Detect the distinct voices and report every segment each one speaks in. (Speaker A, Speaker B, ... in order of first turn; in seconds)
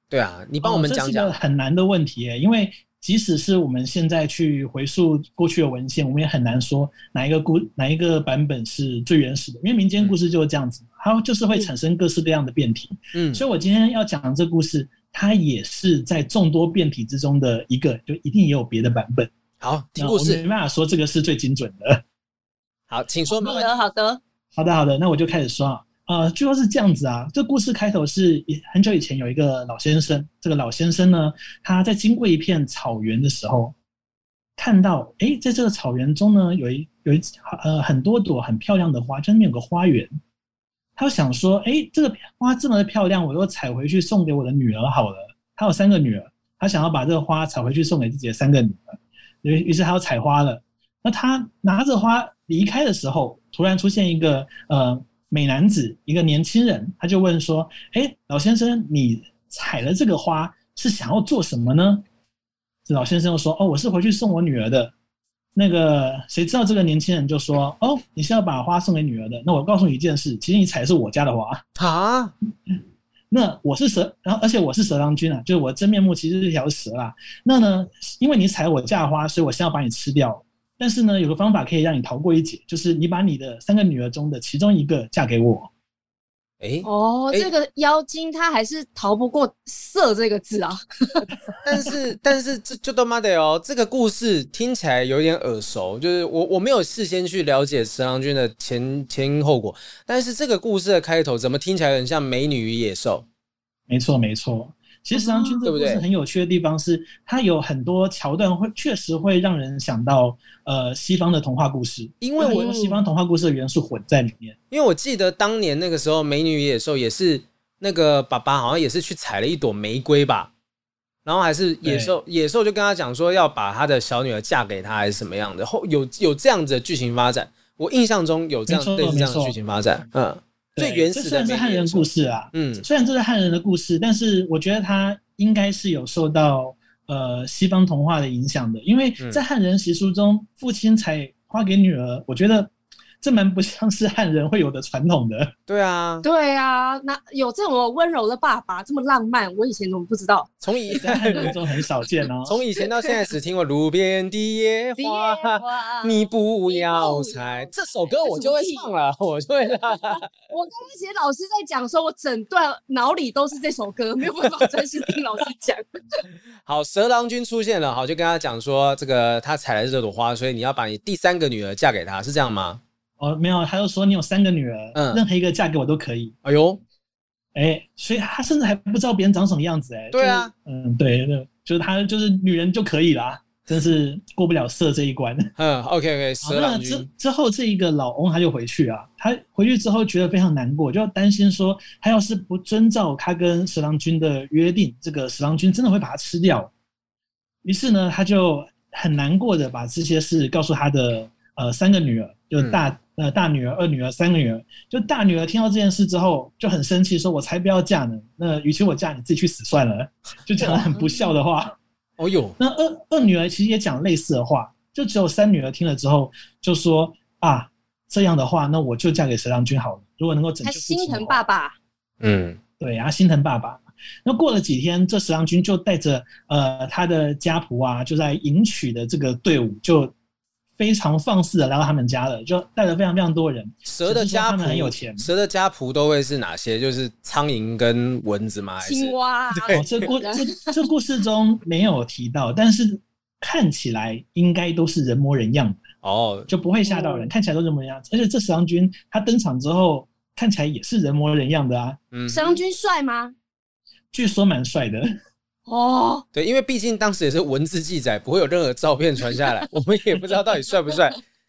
Speaker A: 0.1-1.3, 13.1-13.4, 19.6-20.4, 22.9-23.7, 71.8-72.3, 86.6-87.5, 91.6-103.2, 105.6-106.0, 112.2-112.7, 114.7-120.5, 121.2-132.8, 145.7-146.2, 150.6-151.5, 152.4-160.2, 164.4-164.7, 166.6-172.8, 174.9-175.2, 176.4-176.8, 180.1-180.5, 185.6-187.1, 210.6-211.0, 212.2-212.6, 222.2-222.6, 233.8-240.1, 246.0-246.5, 252.1-252.6, 256.3-261.2
Speaker B: 0.6-19.3, 20.0-22.0, 24.5-33.7, 34.6-40.1, 41.0-62.0, 62.9-64.9, 65.5-71.6, 73.3-85.7, 103.9-114.6, 121.8-122.1, 128.7-129.6, 130.8-145.5, 151.0-152.6, 173.2-176.3, 177.5-185.5, 186.4-196.7, 197.6-211.8, 212.6-221.4, 222.8-230.1, 230.8-235.3, 239.7-245.8, 246.5-252.0, 254.1-255.1
Speaker C: 23.3-24.2, 86.8-91.3, 105.1-105.6, 112.4-113.0, 146.2-151.5, 152.8-153.2, 155.0-158.9, 160.1-166.2, 220.6-221.8, 238.8-240.6, 246.8-247.3, 252.3-253.3, 255.7-256.2, 259.3-259.6, 260.9-261.1